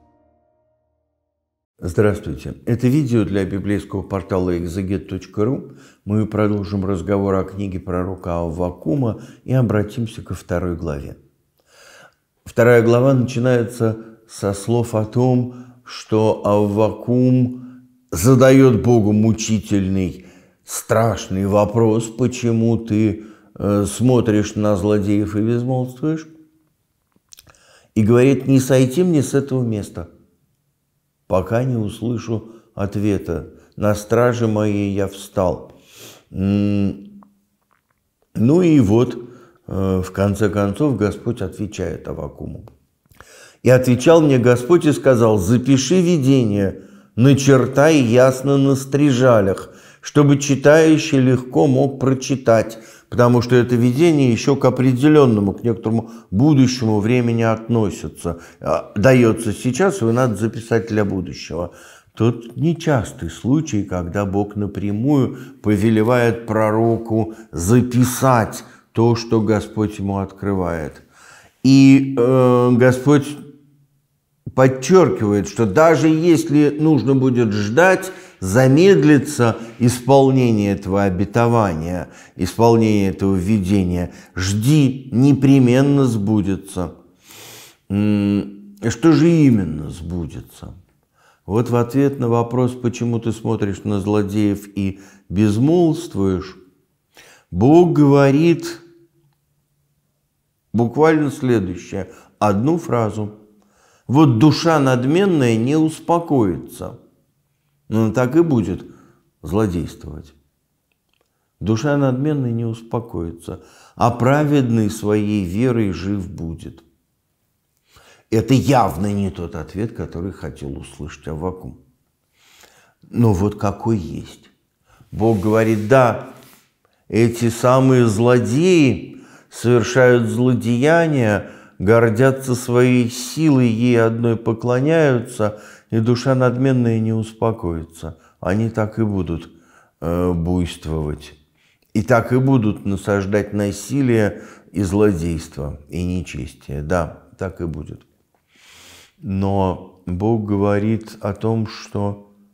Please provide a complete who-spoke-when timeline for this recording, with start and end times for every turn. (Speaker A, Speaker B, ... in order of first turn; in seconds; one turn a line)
Speaker A: 1.8-11.2
Speaker A: 12.4-26.3
Speaker A: 27.9-30.1
Speaker A: 31.3-35.7
Speaker A: 36.3-37.1
Speaker A: 38.3-42.7
Speaker A: 43.6-71.0
Speaker A: 71.6-73.4
Speaker A: 74.5-86.9
Speaker A: 87.9-90.8
Speaker A: 91.5-96.6
Speaker A: 97.5-98.8
Speaker A: 100.7-103.3
Speaker A: 104.1-107.0
Speaker A: 107.9-108.9
Speaker A: 109.4-110.3
Speaker A: 111.6-116.8
Speaker A: 118.3-121.8
Speaker A: 123.1-124.5
Speaker A: 125.1-126.3
Speaker A: 127.1-141.4
Speaker A: 141.9-148.1
Speaker A: 149.2-152.3